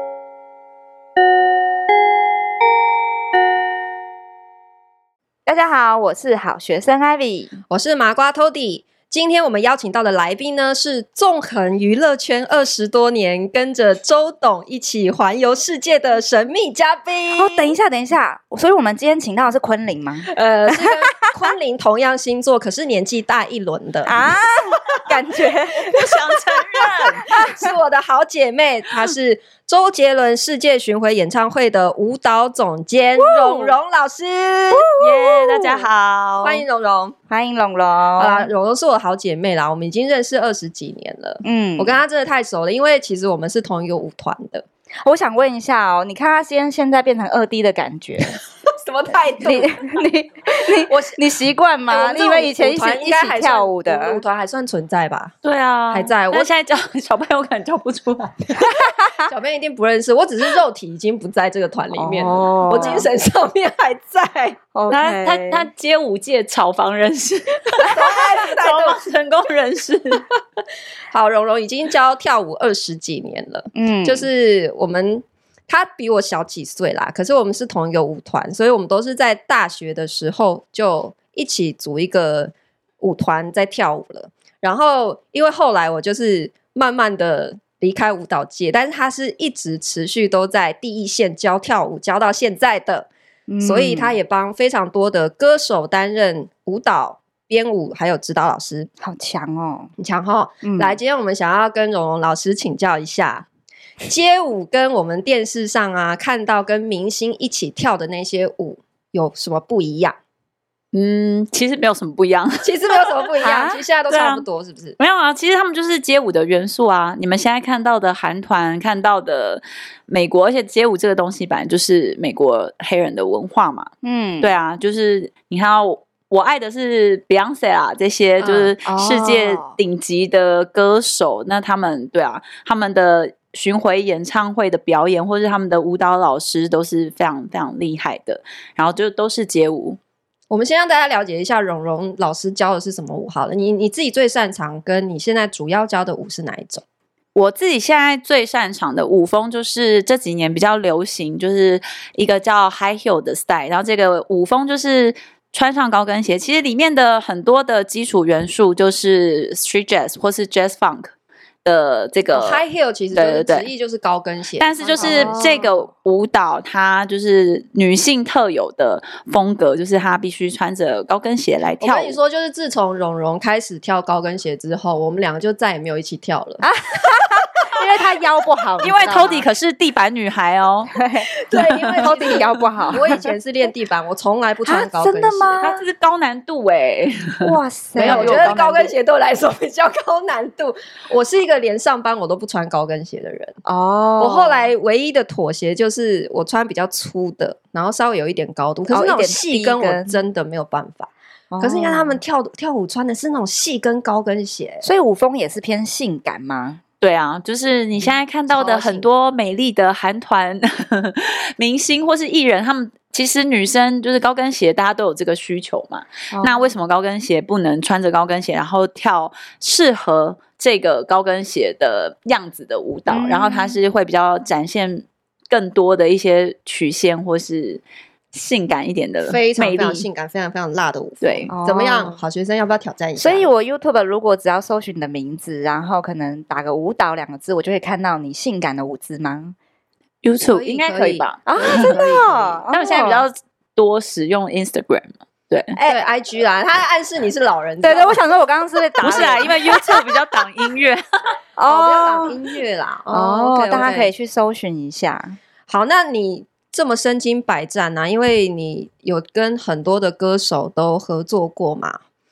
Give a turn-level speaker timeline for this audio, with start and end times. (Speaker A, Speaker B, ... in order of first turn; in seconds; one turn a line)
Speaker A: 5.5-7.6
Speaker B: 7.7-17.7
Speaker A: 17.3-20.9
Speaker B: 20.3-24.1
Speaker A: 24.0-26.2
Speaker C: 25.8-27.2
Speaker A: 26.8-27.4
Speaker B: 27.3-34.9
Speaker A: 33.3-33.7
Speaker C: 35.0-36.6
Speaker A: 35.2-35.9
Speaker B: 36.4-37.1
Speaker A: 37.3-38.5
Speaker B: 38.2-44.6
Speaker A: 41.4-42.0
Speaker A: 45.0-48.4
Speaker B: 48.8-49.7
Speaker A: 49.4-54.2
Speaker B: 50.8-51.2
Speaker B: 51.9-55.3
Speaker C: 55.4-58.6
Speaker B: 55.9-56.5
Speaker A: 58.6-59.3
Speaker B: 59.3-64.6
Speaker A: 61.9-63.1
Speaker A: 64.7-65.7
Speaker C: 64.9-70.2
Speaker B: 67.8-69.0
Speaker B: 71.1-93.1
Speaker A: 73.7-74.3
Speaker A: 93.5-94.2
Speaker B: 93.6-98.9
Speaker A: 99.0-99.9
Speaker B: 100.0-103.5
Speaker A: 100.6-101.0
Speaker B: 104.0-110.2
Speaker C: 110.9-114.5
Speaker B: 112.6-115.0
Speaker C: 115.0-123.9
Speaker A: 124.0-124.5
Speaker C: 124.4-140.0
Speaker A: 128.4-129.7
Speaker B: 140.5-146.8
Speaker C: 147.3-161.1
Speaker C: 161.6-163.7
Speaker B: 162.3-165.4
Speaker C: 164.6-172.2
Speaker A: 164.9-165.7
Speaker B: 171.8-176.6
Speaker A: 176.6-179.4
Speaker C: 178.8-180.9
Speaker A: 180.9-181.3
Speaker B: 181.4-185.6
Speaker C: 181.5-182.6
Speaker A: 182.0-183.3
Speaker A: 184.7-185.8
Speaker C: 185.6-188.9
Speaker A: 187.4-188.5
Speaker B: 188.0-193.6
Speaker A: 193.6-194.7
Speaker B: 194.2-204.8
Speaker A: 198.9-200.2
Speaker A: 201.5-202.2
Speaker A: 204.8-206.8
Speaker C: 207.0-230.1
Speaker B: 208.5-209.0
Speaker A: 216.3-216.7
Speaker A: 223.1-223.8
Speaker B: 229.2-233.5
Speaker C: 231.2-231.5
Speaker A: 231.5-232.2
Speaker A: 233.2-239.5
Speaker C: 240.2-241.9
Speaker B: 240.4-242.6
Speaker A: 241.4-243.2
Speaker C: 242.7-245.8
Speaker A: 245.7-246.0
Speaker B: 245.8-248.2
Speaker A: 247.8-250.1
Speaker C: 249.0-251.0
Speaker A: 251.6-252.4
Speaker B: 251.7-254.1
Speaker A: 253.1-255.4
Speaker B: 255.7-262.0